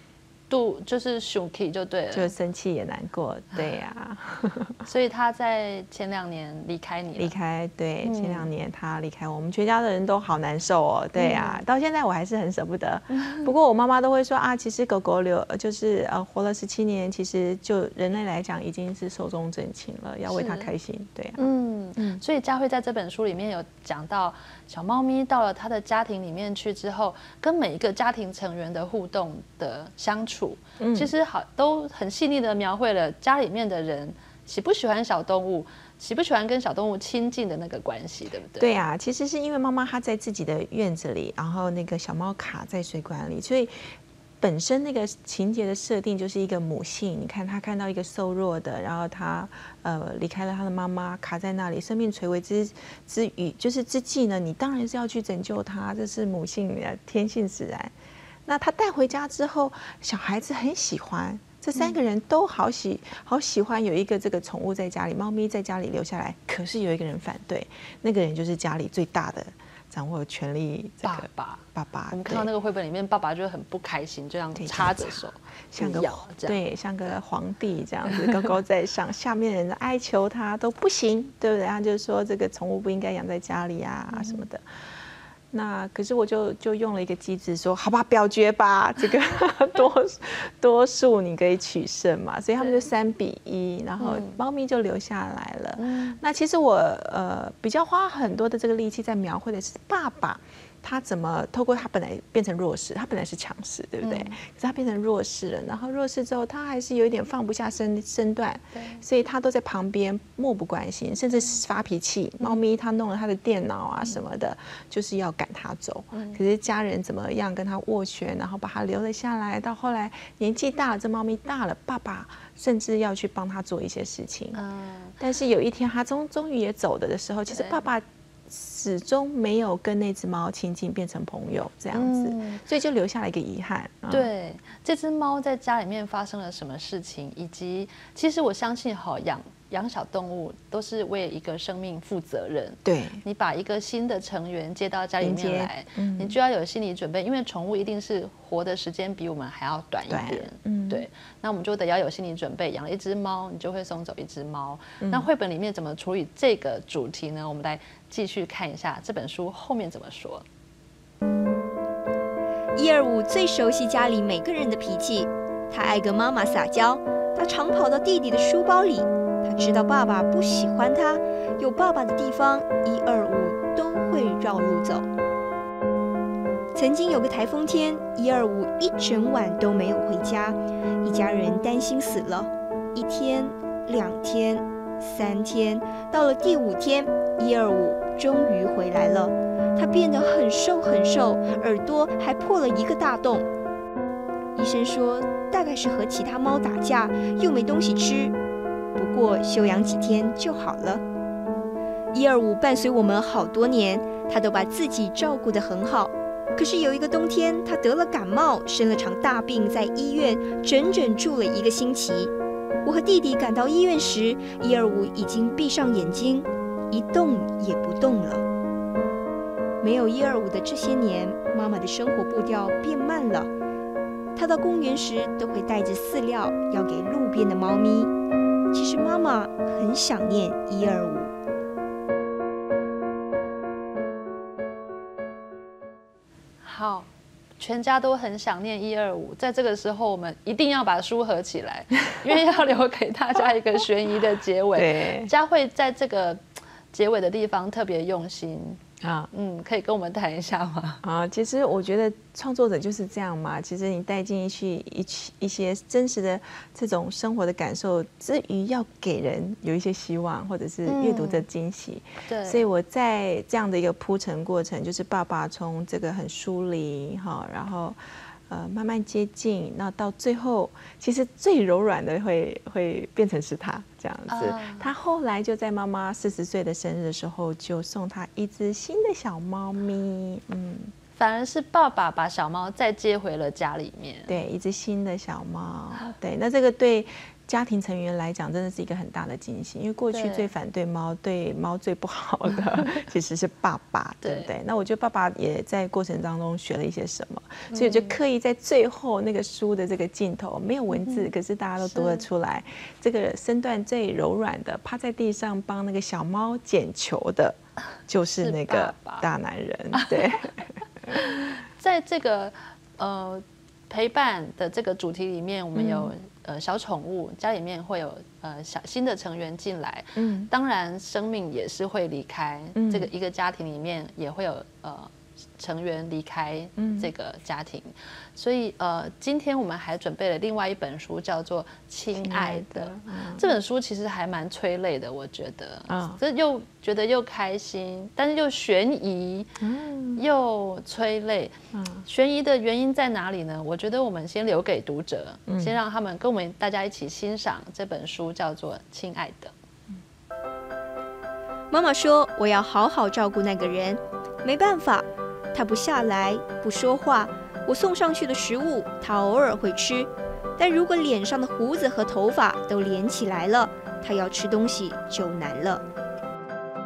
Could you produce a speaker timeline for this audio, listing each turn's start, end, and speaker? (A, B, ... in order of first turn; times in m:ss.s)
0:00.5-0:02.3 A
0:02.1-0:04.8 B
0:04.8-0:07.4 A
0:07.2-0:21.4 B
0:08.0-0:08.5 A
0:11.2-0:11.6 A
0:13.1-0:13.5 A
0:20.3-0:20.7 A
0:21.4-0:38.7 A
0:22.0-0:22.2 B
0:30.8-0:31.1 B
0:38.6-0:57.9 B
0:58.5-1:12.5 B
1:11.0-1:16.6 A
1:14.6-1:24.6 B
1:24.1-1:24.4 A
1:25.5-2:04.6 B
1:34.0-1:34.4 A
1:35.8-1:36.2 A
1:44.0-1:44.4 A
1:48.7-1:49.0 A
1:56.1-1:56.4 A
2:04.6-2:05.2 A
2:05.2-2:14.3 B
2:07.5-2:07.8 A
2:11.9-2:12.6 A
2:14.1-2:40.4 A
2:22.8-2:23.2 B
2:25.2-2:26.4 B
2:30.1-2:31.1 B
2:35.0-2:35.3 B
2:42.8-2:55.1 C
2:56.8-3:13.5 C
3:14.6-3:18.4 C
3:19.0-3:21.0 C
3:22.1-3:32.3 C
3:32.8-3:38.4 C
3:39.8-3:43.5 C
3:44.4-3:48.1 C
3:48.7-3:51.3 C
3:56.6-4:08.8 A
4:04.7-4:05.3 B
4:09.0-4:09.3 B
4:09.3-4:11.0 A
4:11.0-4:28.0 B
4:20.9-4:21.5 A
4:22.3-4:22.6 A
4:28.5-4:40.9 B
4:34.3-4:34.9 A
4:41.2-4:44.3 A
4:44.3-5:07.6 B
4:50.1-4:50.5 A
4:54.2-4:54.5 A
4:57.7-4:58.2 A
5:00.9-5:01.3 A
5:01.8-5:02.3 A
5:08.1-5:11.2 B
5:08.4-5:09.3 A
5:09.9-5:10.2 A
5:11.1-5:39.5 A
5:15.7-5:16.1 B
5:20.2-5:20.5 B
5:22.8-5:23.1 B
5:26.8-5:27.1 B
5:32.2-5:33.5 B
5:35.9-5:36.2 B
5:39.6-5:40.2 B
5:40.2-5:49.5 A
5:41.7-5:42.1 B
5:45.5-5:45.8 B
5:51.7-6:05.8 C